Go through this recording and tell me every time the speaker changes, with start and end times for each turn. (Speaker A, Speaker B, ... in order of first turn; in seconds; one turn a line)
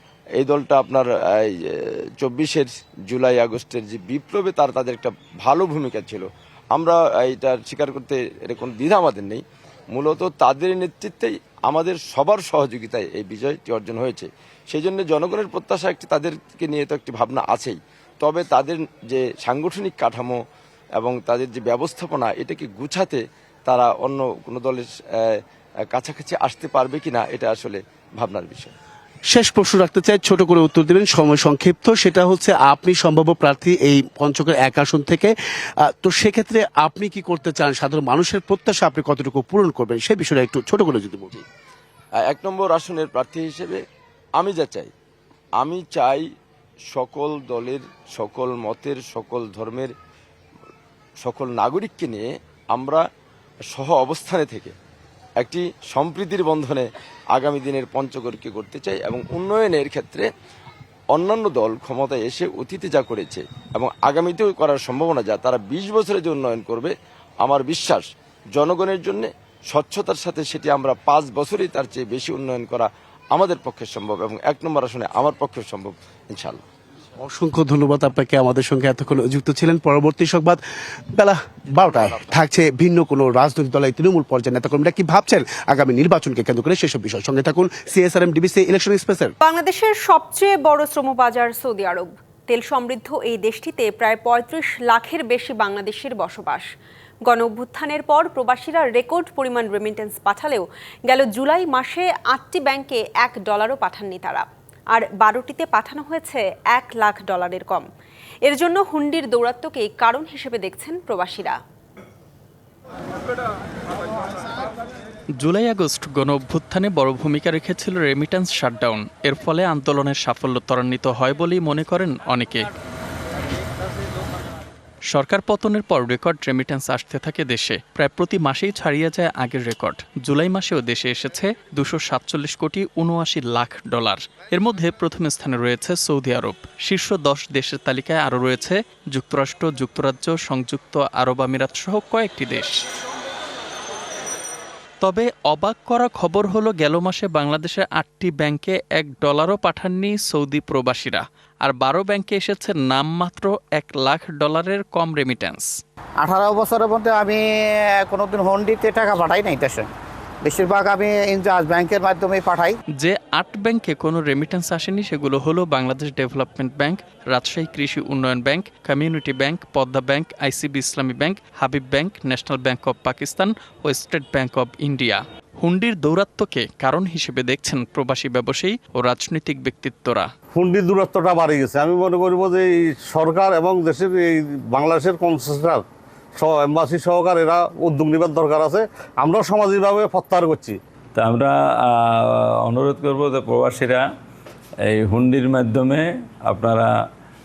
Speaker A: 0.4-20.4
Speaker A: 21.0-28.7
Speaker B: 29.3-41.3
Speaker A: 42.2-43.8
Speaker A: 44.4-44.9
Speaker A: 45.6-46.3
Speaker A: 46.9-49.9
Speaker A: 51.2-53.0
Speaker A: 53.7-54.7
Speaker A: 55.4-60.3
Speaker A: 61.1-76.6
Speaker B: 77.2-80.6
Speaker B: 81.1-89.3
Speaker C: 89.4-96.7
Speaker C: 97.3-107.9
Speaker C: 108.5-111.6
Speaker D: 115.4-122.7
Speaker D: 125.1-142.8
Speaker D: 145.0-155.8
Speaker E: 156.2-157.4
Speaker E: 158.0-159.9
Speaker E: 160.4-162.8
Speaker D: 163.0-180.3
Speaker F: 180.6-185.8
Speaker F: 186.4-190.8
Speaker G: 191.2-194.1
Speaker G: 194.9-196.9